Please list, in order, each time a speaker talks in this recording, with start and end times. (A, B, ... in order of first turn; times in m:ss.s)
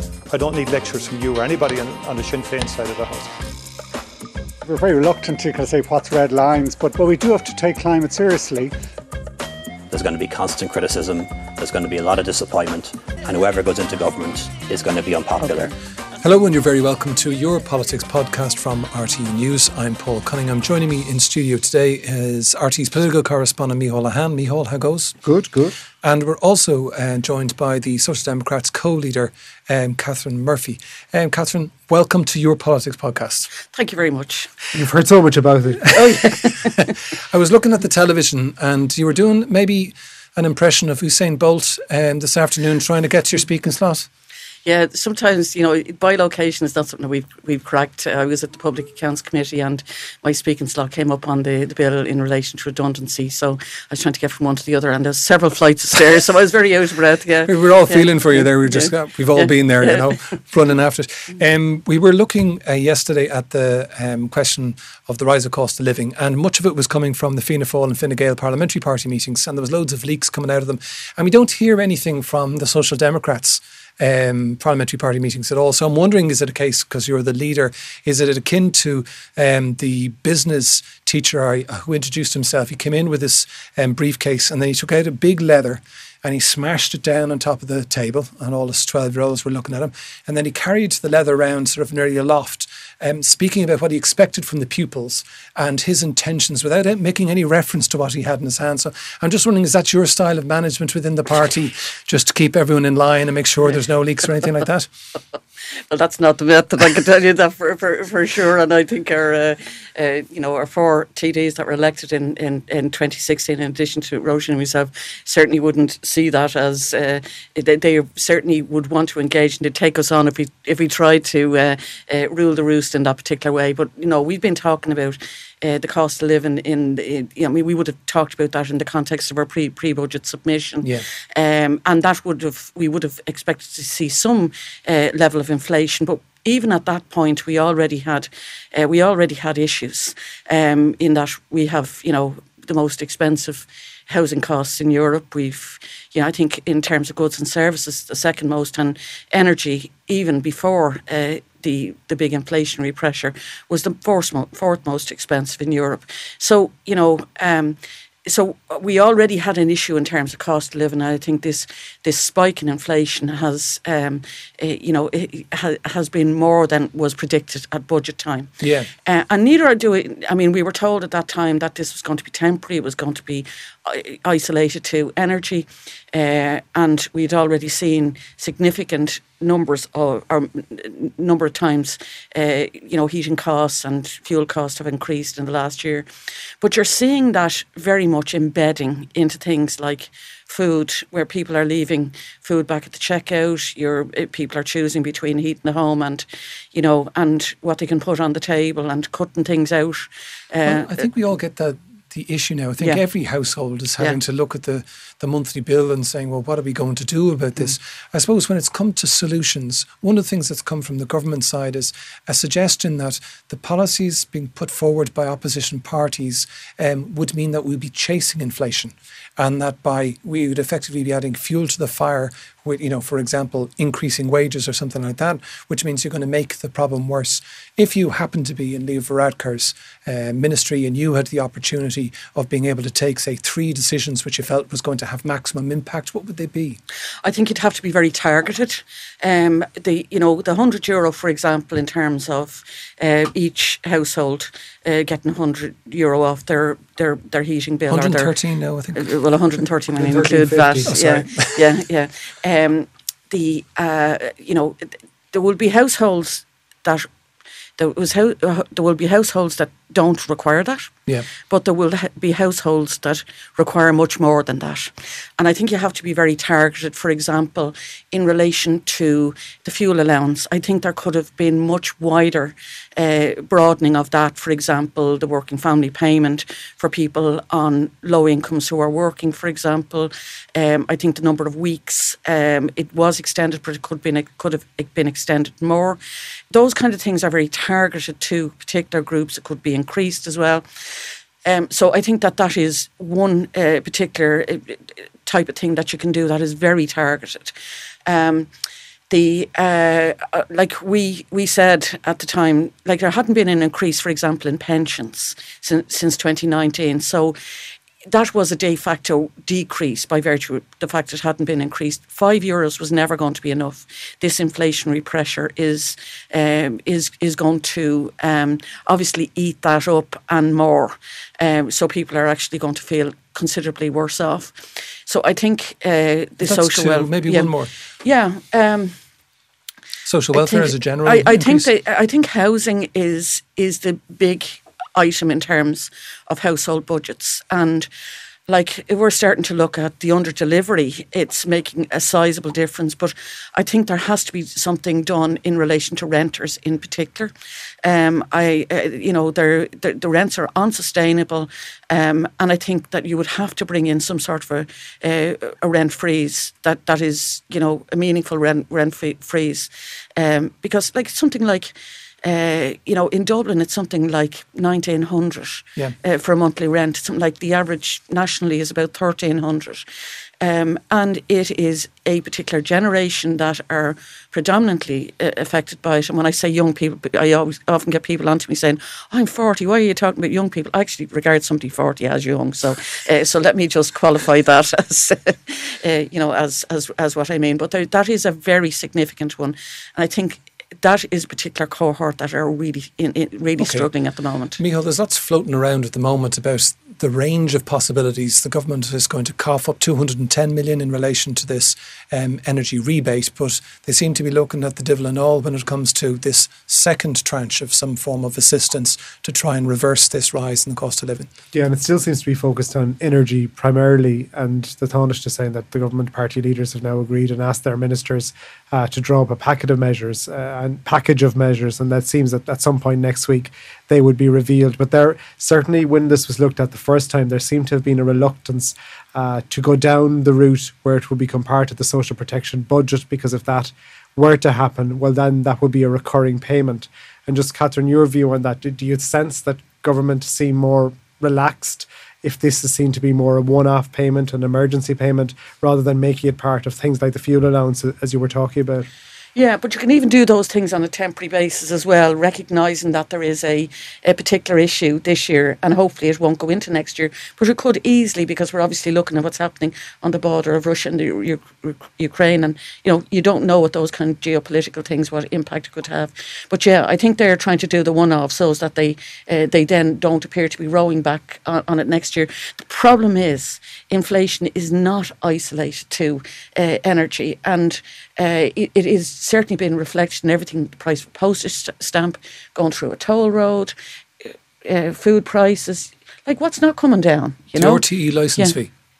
0:00.3-0:03.3 A
0:04.6-0:08.7 B
0:09.9-0:15.7 C
0:16.2-0:25.2 D
0:25.2-0:25.8 E
0:26.0-0:33.5 D
0:33.6-0:34.5 F
0:34.7-0:36.1 E
0:35.9-0:44.1 D
0:35.9-0:36.9 F
0:44.6-1:00.2 F
0:57.5-1:44.9 D
1:45.9-3:06.0 F
2:10.8-2:11.1 D
2:48.6-2:48.9 D
3:06.6-3:21.1 F
3:20.6-3:56.8 D
3:57.2-4:08.3 F
4:07.9-4:09.1 D
4:08.9-4:17.1 F
4:10.0-4:11.7 D
4:17.8-4:20.9 F
4:21.5-4:46.0 F
4:46.5-4:57.5 F
4:58.0-4:58.5 F
4:59.1-5:07.4 F
5:08.1-5:29.0 F
5:26.4-5:27.7 D
5:30.0-5:31.7 D
5:30.3-5:37.9 F
5:38.5-5:47.3 F
5:47.8-6:09.9 F
6:10.4-6:34.6 F
6:33.6-6:33.9 D
6:34.6-6:51.3 D
6:51.5-7:28.9 E
7:29.3-8:03.7 F
8:04.2-8:07.8 F
8:07.6-8:08.7 D